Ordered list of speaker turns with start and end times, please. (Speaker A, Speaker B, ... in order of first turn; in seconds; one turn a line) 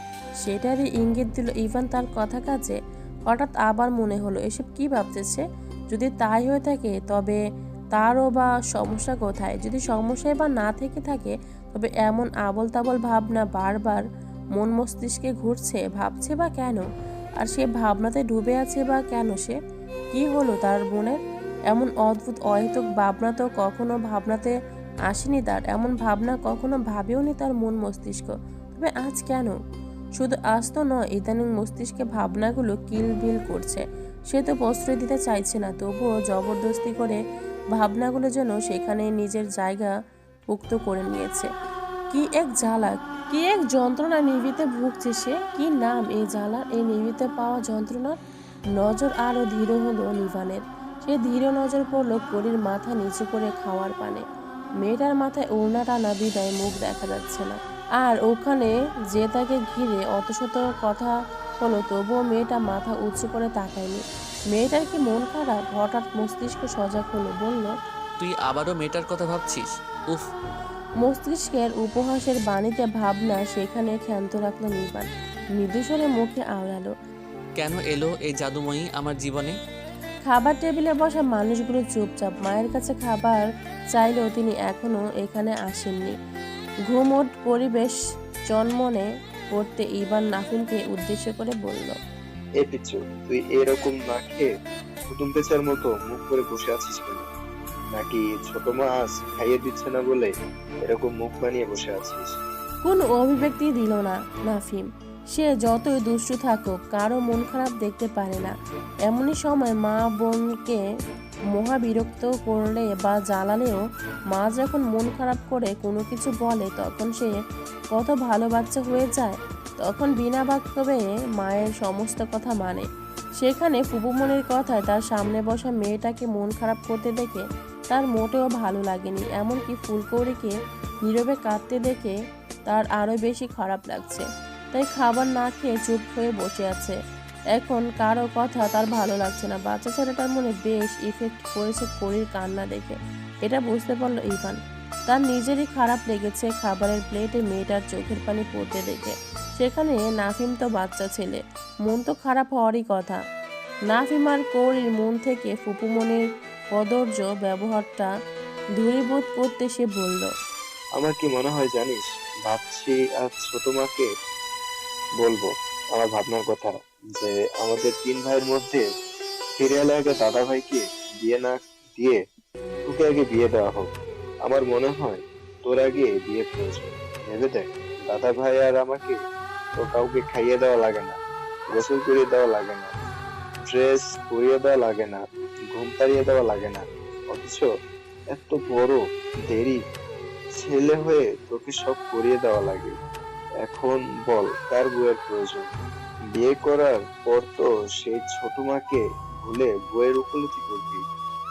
Speaker A: 0.4-7.4
Speaker A: 7.9-14.0
Speaker A: 14.5-16.8
Speaker A: 17.4-19.6
Speaker A: 20.1-21.2
Speaker A: 21.7-24.5
Speaker A: 25.1-29.6
Speaker A: 30.2-37.2
Speaker A: 37.7-39.9
Speaker A: 40.5-41.5
Speaker A: 42.1-48.1
Speaker A: 48.8-54.2
Speaker A: 54.8-67.7
Speaker B: 68.2-70.3
Speaker A: 71.0-75.1
Speaker A: 75.6-76.9
Speaker B: 77.5-79.6
Speaker A: 80.2-86.1
Speaker A: 86.9-88.0
Speaker A: 88.5-92.0
Speaker C: 92.6-94.5
Speaker C: 95.1-97.3
Speaker C: 97.9-100.3
Speaker C: 100.8-102.3
Speaker A: 102.8-108.5
Speaker A: 109.1-110.8
Speaker A: 111.5-117.3
Speaker A: 117.9-122.8
Speaker A: 123.4-132.1
Speaker A: 132.7-137.0
Speaker A: 137.5-153.2
Speaker A: 153.9-158.1
Speaker A: 158.8-160.3
Speaker C: 160.9-164.1
Speaker C: 165.2-168.8
Speaker C: 169.6-172.2
Speaker C: 172.8-173.9
Speaker C: 174.4-179.2
Speaker C: 179.7-181.2
Speaker C: 181.7-182.9
Speaker C: 183.6-187.7
Speaker C: 188.3-189.8
Speaker C: 190.6-192.9
Speaker C: 193.6-195.7
Speaker C: 196.3-201.0